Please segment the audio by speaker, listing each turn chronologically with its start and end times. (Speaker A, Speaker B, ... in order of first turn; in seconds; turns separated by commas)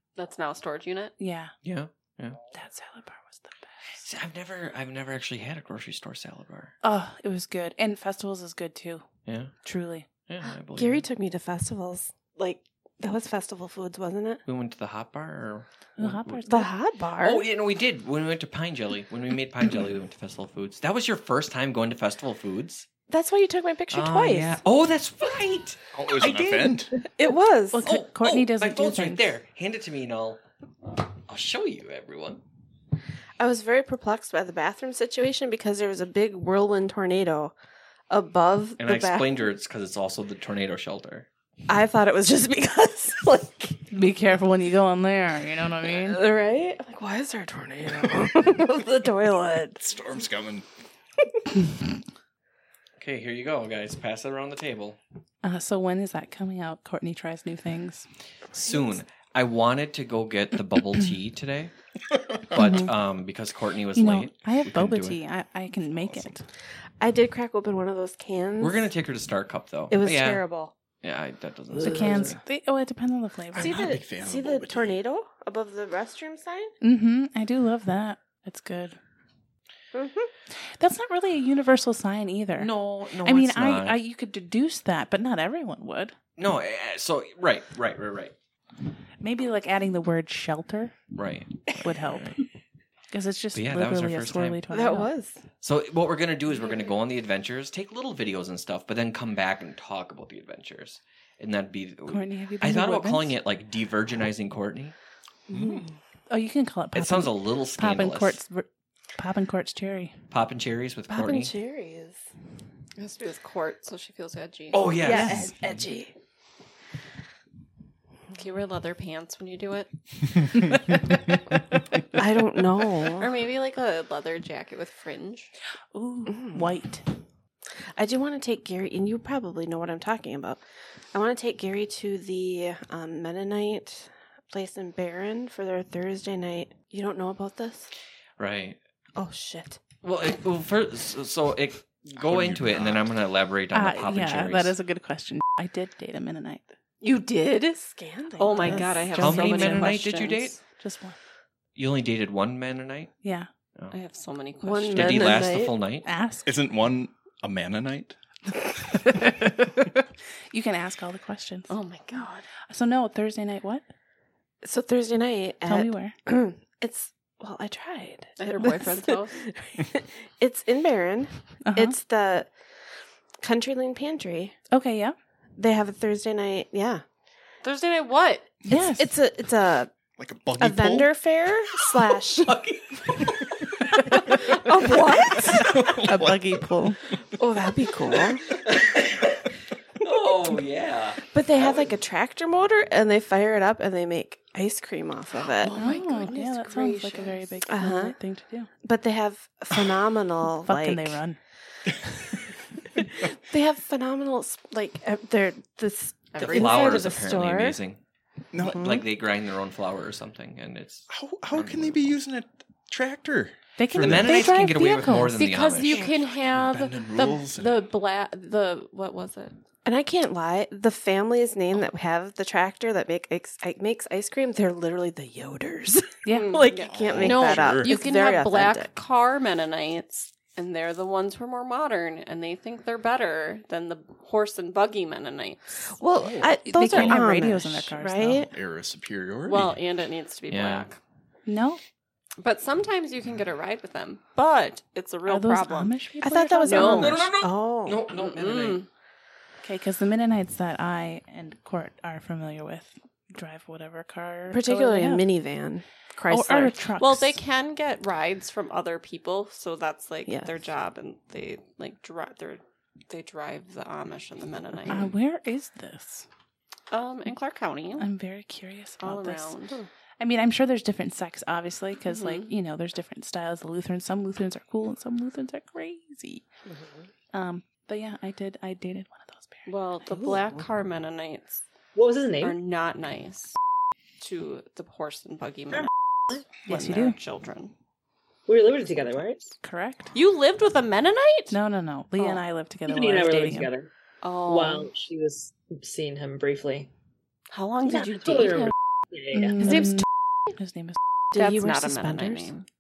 Speaker A: 0.2-1.1, Speaker B: 1.2-1.6, Speaker C: 1.6-2.4, Speaker B: 2.5-4.0, Speaker C: 4.0-6.8, Speaker B: 6.8-9.1, Speaker C: 9.3-9.5, Speaker B: 9.6-10.1, Speaker C: 10.3-11.1, Speaker D: 10.8-14.4, Speaker C: 14.5-16.5, Speaker B: 16.0-16.7, Speaker D: 16.5-17.4, Speaker C: 17.2-22.9, Speaker D: 23.1-24.6, Speaker C: 23.9-26.7, Speaker E: 25.9-26.9, Speaker D: 27.0-27.9, Speaker B: 27.7-29.3, Speaker C: 27.8-30.4, Speaker C: 31.3-32.4, Speaker D: 33.4-37.5, Speaker D: 38.1-39.4, Speaker C: 38.8-41.3, Speaker D: 41.7-43.8, Speaker B: 43.9-46.2, Speaker D: 45.9-49.8, Speaker E: 49.8-50.7, Speaker C: 53.0-55.0, Speaker B: 55.4-58.1, Speaker C: 58.5-61.7, Speaker C: 62.5-65.2, Speaker B: 62.5-62.9, Speaker B: 64.0-66.4, Speaker E: 66.0-66.3, Speaker D: 67.0-68.9, Speaker C: 68.6-70.4, Speaker D: 69.9-70.7, Speaker C: 71.0-72.4, Speaker F: 71.8-72.3, Speaker B: 71.8-73.9, Speaker E: 73.5-75.0, Speaker D: 73.5-76.7, Speaker B: 76.8-79.0, Speaker D: 79.9-80.3, Speaker B: 80.8-82.7, Speaker C: 82.6-84.0, Speaker B: 83.2-86.2, Speaker C: 86.4-88.3, Speaker B: 89.2-91.0, Speaker C: 91.1-92.3, Speaker B: 91.7-92.4, Speaker B: 93.1-95.1, Speaker C: 93.5-94.6, Speaker D: 94.7-95.4, Speaker C: 95.6-105.0, Speaker B: 102.1-103.3, Speaker D: 105.5-105.9, Speaker E: 105.5-105.9, Speaker B: 106.3-110.2, Speaker C: 107.0-108.4, Speaker C: 110.3-111.5, Speaker D: 111.1-112.2, Speaker A: 113.0-115.1, Speaker C: 114.7-115.5, Speaker D: 115.0-116.1, Speaker B: 115.1-115.5, Speaker A: 118.3-119.9, Speaker D: 122.1-123.3, Speaker A: 123.1-125.5, Speaker B: 125.9-127.0, Speaker D: 126.3-126.6, Speaker D: 128.0-130.6, Speaker D: 131.1-137.9, Speaker C: 138.4-138.8, Speaker D: 139.2-139.8, Speaker C: 140.0-144.8, Speaker E: 142.1-143.1, Speaker B: 143.7-146.8, Speaker A: 147.0-150.6, Speaker D: 147.9-149.1, Speaker B: 148.6-150.1, Speaker C: 149.1-150.6, Speaker B: 150.7-151.2, Speaker C: 151.8-153.1, Speaker B: 153.2-153.5, Speaker A: 153.9-155.7, Speaker D: 154.6-155.7, Speaker C: 154.9-156.1, Speaker B: 156.0-156.5, Speaker E: 156.4-158.2, Speaker B: 159.1-159.5, Speaker B: 160.5-161.7, Speaker A: 161.7-162.5, Speaker B: 162.7-163.8, Speaker D: 164.6-172.5, Speaker B: 165.7-166.2, Speaker A: 168.4-169.4, Speaker B: 171.6-172.0, Speaker D: 173.4-174.6, Speaker B: 174.7-175.2, Speaker D: 175.6-177.0, Speaker A: 177.6-178.6, Speaker B: 178.7-179.1, Speaker D: 178.7-179.9, Speaker E: 180.2-181.2, Speaker D: 180.6-182.6, Speaker C: 182.4-183.6, Speaker E: 184.1-186.7, Speaker D: 184.2-185.8, Speaker C: 184.3-185.0, Speaker B: 186.0-187.0, Speaker D: 187.3-188.5, Speaker C: 188.5-191.9, Speaker D: 191.3-195.9, Speaker A: 195.5-197.4, Speaker B: 195.7-198.7, Speaker D: 197.7-198.2, Speaker D: 198.8-201.2, Speaker B: 200.7-201.4, Speaker D: 203.2-207.8, Speaker A: 206.3-207.1, Speaker C: 206.4-208.0, Speaker E: 208.5-209.0, Speaker C: 208.6-212.2, Speaker D: 208.7-209.0, Speaker E: 211.1-214.6, Speaker B: 213.8-215.5, Speaker C: 214.0-216.1, Speaker A: 215.3-219.6, Speaker E: 215.8-217.9, Speaker D: 219.8-228.9, Speaker B: 226.2-226.6, Speaker A: 226.3-235.9, Speaker E: 226.9-227.9, Speaker D: 235.9-238.5, Speaker B: 236.6-238.5, Speaker E: 238.5-239.8, Speaker A: 239.4-241.0, Speaker C: 240.5-240.9, Speaker B: 241.5-241.8, Speaker A: 242.4-246.0, Speaker B: 245.3-247.2, Speaker D: 246.2-248.0, Speaker A: 246.7-247.3, Speaker C: 246.8-248.8, Speaker A: 248.1-248.9, Speaker B: 249.6-255.3, Speaker D: 254.5-256.9, Speaker B: 256.3-257.4, Speaker A: 257.0-265.1, Speaker D: 260.3-260.5, Speaker B: 264.9-266.3, Speaker A: 266.9-268.1, Speaker B: 268.0-269.6, Speaker A: 269.0-269.9, Speaker B: 270.2-276.4, Speaker A: 272.1-272.5, Speaker B: 277.3-279.7, Speaker A: 279.7-281.6, Speaker D: 280.1-280.6, Speaker F: 281.9-282.6, Speaker A: 282.4-283.6, Speaker A: 284.2-287.7, Speaker B: 286.7-287.2, Speaker F: 288.5-289.6, Speaker B: 289.6-290.1, Speaker A: 290.1-291.6, Speaker B: 291.5-293.7, Speaker F: 292.9-293.9, Speaker A: 294.2-294.9, Speaker F: 294.5-296.9, Speaker A: 297.5-298.7, Speaker F: 297.9-299.9, Speaker B: 299.3-301.0, Speaker D: 301.3-302.5, Speaker A: 301.4-302.7